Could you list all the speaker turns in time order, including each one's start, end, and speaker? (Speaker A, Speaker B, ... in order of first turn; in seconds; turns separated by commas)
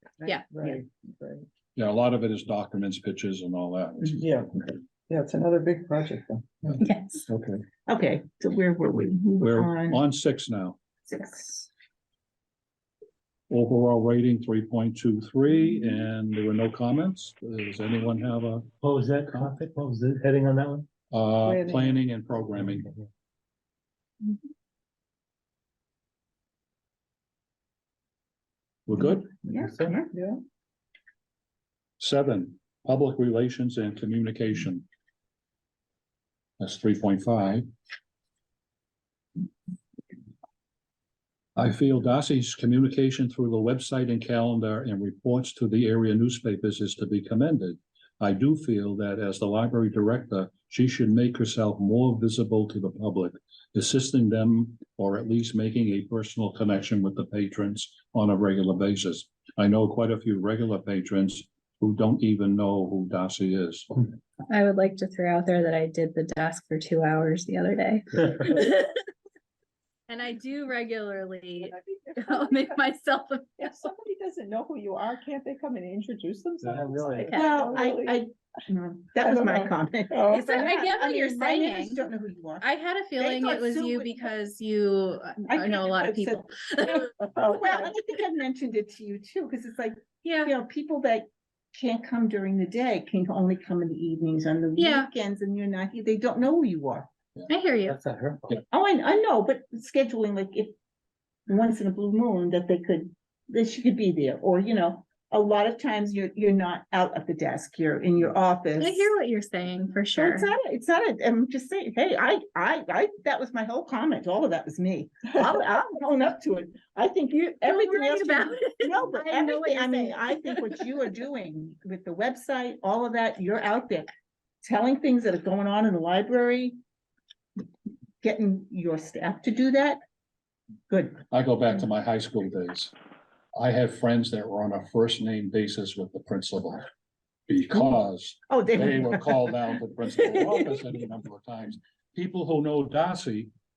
Speaker A: 0.5-1.4, Speaker B: 1.8-4.3, Speaker A: 4.2-4.5, Speaker A: 5.1-6.8, Speaker C: 6.8-7.2, Speaker D: 7.9-10.0, Speaker B: 9.4-10.8, Speaker D: 11.1-11.7, Speaker B: 13.5-18.7, Speaker E: 18.8-20.9, Speaker B: 19.2-19.5, Speaker B: 21.1-22.9, Speaker A: 21.4-22.0, Speaker E: 22.6-23.1, Speaker B: 28.9-29.3, Speaker D: 29.3-30.1, Speaker E: 29.6-30.0, Speaker A: 30.1-30.4, Speaker B: 32.0-34.9, Speaker B: 36.6-37.7, Speaker B: 41.6-63.9, Speaker C: 64.5-68.9, Speaker C: 70.1-73.9, Speaker A: 71.7-72.6, Speaker A: 73.7-78.2, Speaker E: 76.6-77.3, Speaker C: 77.3-77.6, Speaker D: 77.3-84.3, Speaker A: 79.2-80.7, Speaker C: 80.3-82.1, Speaker C: 82.6-87.2, Speaker D: 85.5-86.5, Speaker A: 87.3-87.9, Speaker D: 87.4-97.1, Speaker C: 90.2-90.5, Speaker C: 94.8-95.1, Speaker C: 97.5-98.0, Speaker E: 97.9-98.6, Speaker D: 98.7-100.8, Speaker D: 101.5-109.1, Speaker C: 108.8-110.5, Speaker D: 110.2-124.1, Speaker C: 117.7-120.9, Speaker D: 124.6-126.8, Speaker D: 128.2-130.0, Speaker D: 130.9-131.2, Speaker B: 131.3-132.9, Speaker B: 133.5-136.9, Speaker B: 137.5-143.5, Speaker D: 138.5-139.4